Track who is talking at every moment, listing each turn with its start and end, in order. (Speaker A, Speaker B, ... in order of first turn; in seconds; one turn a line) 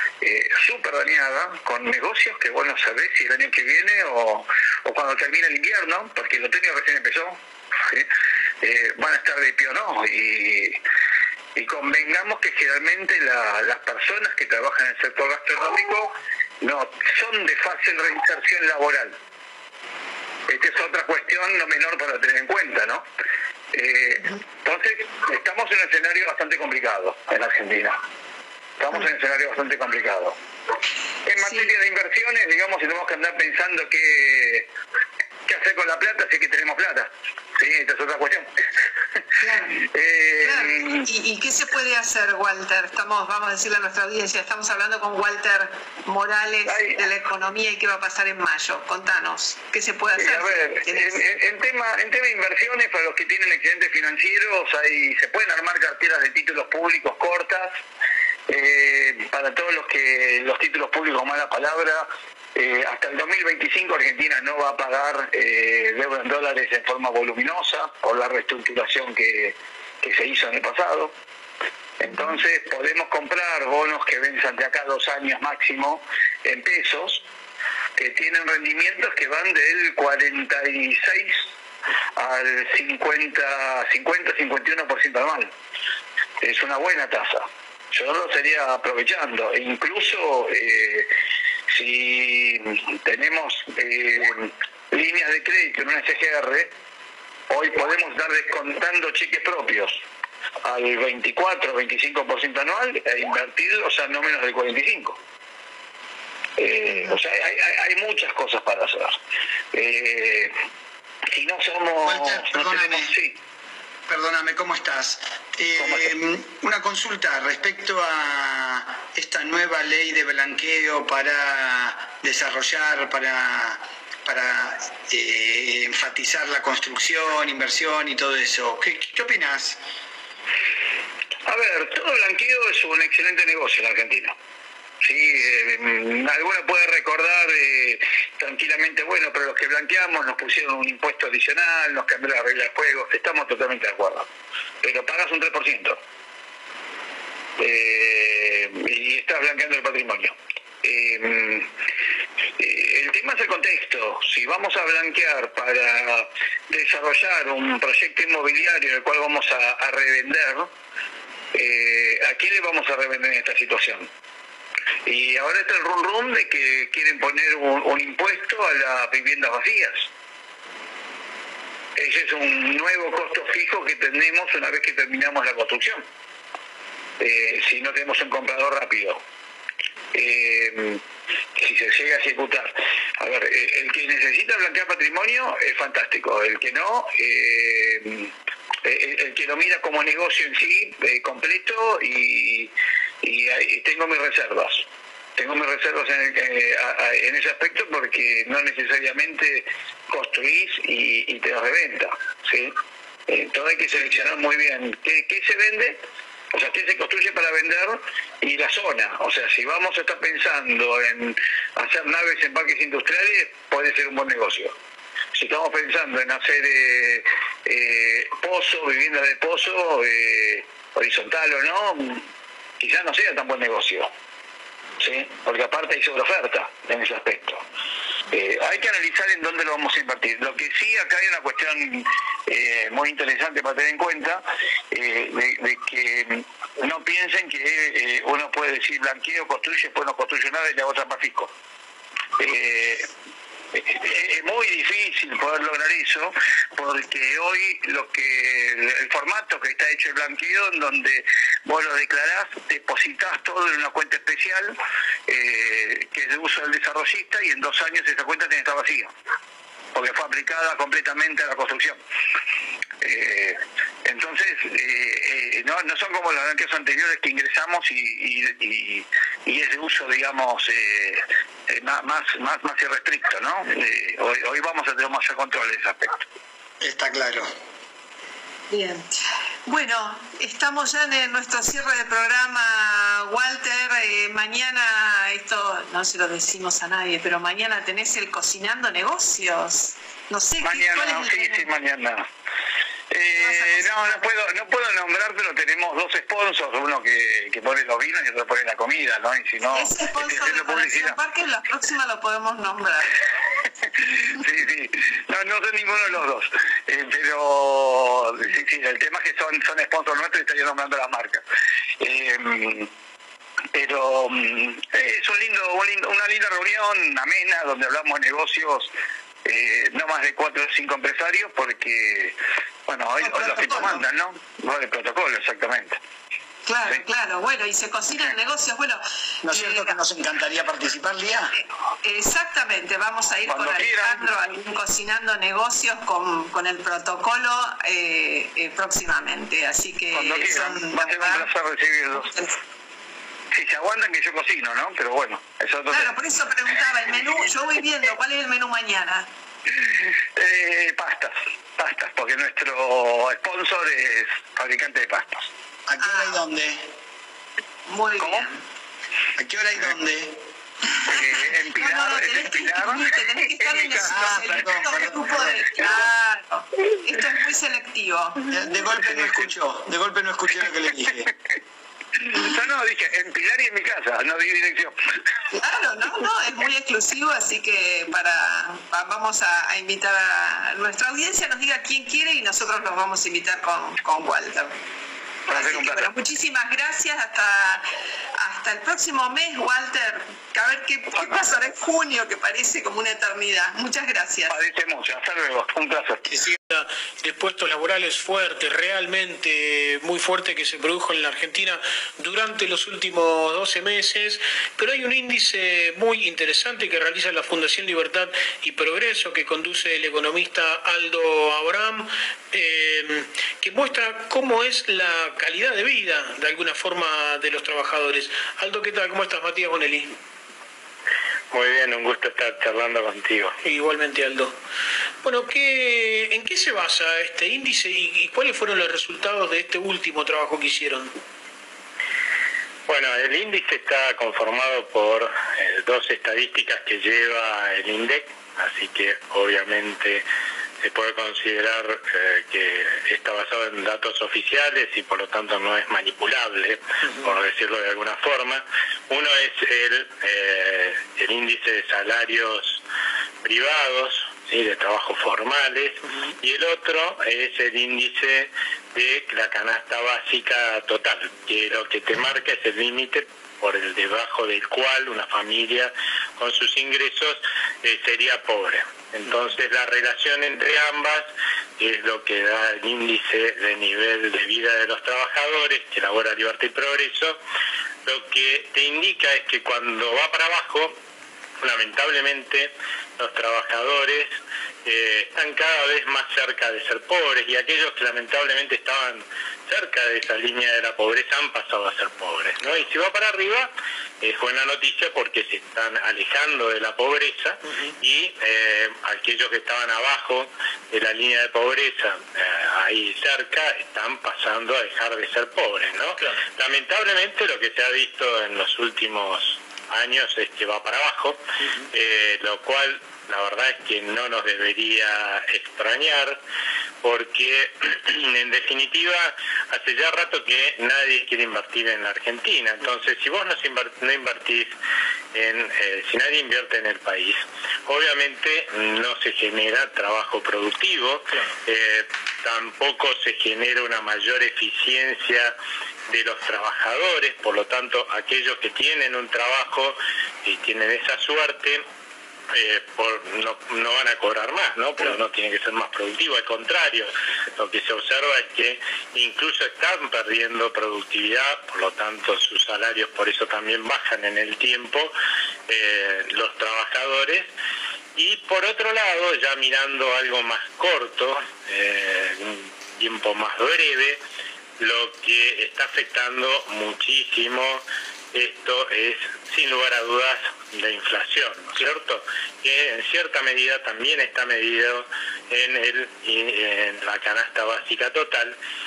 Speaker A: 0.2-8.1
Speaker A: 8.6-10.8
Speaker A: 11.6-19.2
Speaker A: 20.5-23.0
Speaker A: 23.7-28.0
Speaker A: 28.8-30.4
Speaker A: 31.2-34.7
Speaker B: 31.4-31.7
Speaker A: 35.5-38.5
Speaker B: 39.4-39.8
Speaker A: 39.7-41.0
Speaker B: 40.4-51.3
Speaker A: 46.6-47.0
Speaker A: 50.2-57.7
Speaker A: 58.5-71.1
Speaker A: 72.0-77.2
Speaker A: 78.0-81.4
Speaker A: 82.2-85.5
Speaker A: 86.4-91.1
Speaker A: 91.7-96.7
Speaker A: 97.5-100.0
Speaker A: 100.6-105.2
Speaker A: 106.6-109.2
Speaker A: 109.7-110.5
Speaker A: 111.3-113.4
Speaker C: 112.0-113.1
Speaker C: 114.1-129.8
Speaker A: 115.8-116.1
Speaker A: 131.5-134.3
Speaker A: 135.0-144.3
Speaker A: 144.8-146.0
Speaker A: 147.6-151.7
Speaker A: 152.6-160.7
Speaker A: 161.5-164.1
Speaker A: 165.1-170.1
Speaker A: 172.0-176.1
Speaker A: 177.2-179.2
Speaker A: 180.1-181.0
Speaker A: 181.6-188.3
Speaker A: 188.8-194.8
Speaker A: 195.4-202.7
Speaker A: 203.3-214.8
Speaker A: 215.3-222.2
Speaker A: 222.8-224.1
Speaker A: 225.0-227.6
Speaker A: 228.3-241.5
Speaker A: 242.4-243.1
Speaker A: 243.7-254.8
Speaker A: 255.3-259.1
Speaker A: 259.9-262.0
Speaker A: 263.0-276.1
Speaker C: 276.8-277.5
Speaker B: 278.7-291.7
Speaker A: 290.6-292.3
Speaker A: 293.1-301.2
Speaker B: 293.3-294.2
Speaker B: 299.7-303.1
Speaker A: 304.4-311.4
Speaker A: 312.0-312.9
Speaker A: 313.7-318.9
Speaker A: 319.4-326.0
Speaker C: 323.3-324.0
Speaker B: 326.7-330.0
Speaker C: 329.4-331.5
Speaker B: 331.6-341.5
Speaker A: 333.5-334.3
Speaker A: 340.1-342.3
Speaker B: 342.2-342.5
Speaker A: 343.5-346.2
Speaker B: 345.9-349.3
Speaker A: 350.4-355.5
Speaker C: 355.9-356.8
Speaker B: 356.0-356.5
Speaker B: 357.9-358.5
Speaker C: 359.4-360.4
Speaker A: 361.1-363.1
Speaker B: 361.7-368.4
Speaker A: 363.6-366.1
Speaker C: 364.1-365.9
Speaker C: 368.5-371.3
Speaker A: 372.2-375.0
Speaker B: 375.5-384.7
Speaker A: 385.5-386.1
Speaker B: 385.5-387.9
Speaker B: 388.4-394.6
Speaker A: 391.2-391.5
Speaker A: 394.5-396.3
Speaker D: 396.7-420.1
Speaker E: 421.5-423.6
Speaker D: 423.6-424.6
Speaker D: 425.2-431.1
Speaker E: 432.9-440.2
Speaker E: 440.8-452.8
Speaker E: 453.4-471.3
Speaker E: 471.8-477.4
Speaker E: 478.1-481.0
Speaker E: 481.6-511.4
Speaker D: 497.7-497.9
Speaker E: 511.9-516.4
Speaker E: 517.0-524.7
Speaker E: 525.3-535.5
Speaker E: 536.1-541.8
Speaker E: 542.5-555.1
Speaker E: 555.7-557.5
Speaker E: 558.1-564.2
Speaker E: 564.8-578.6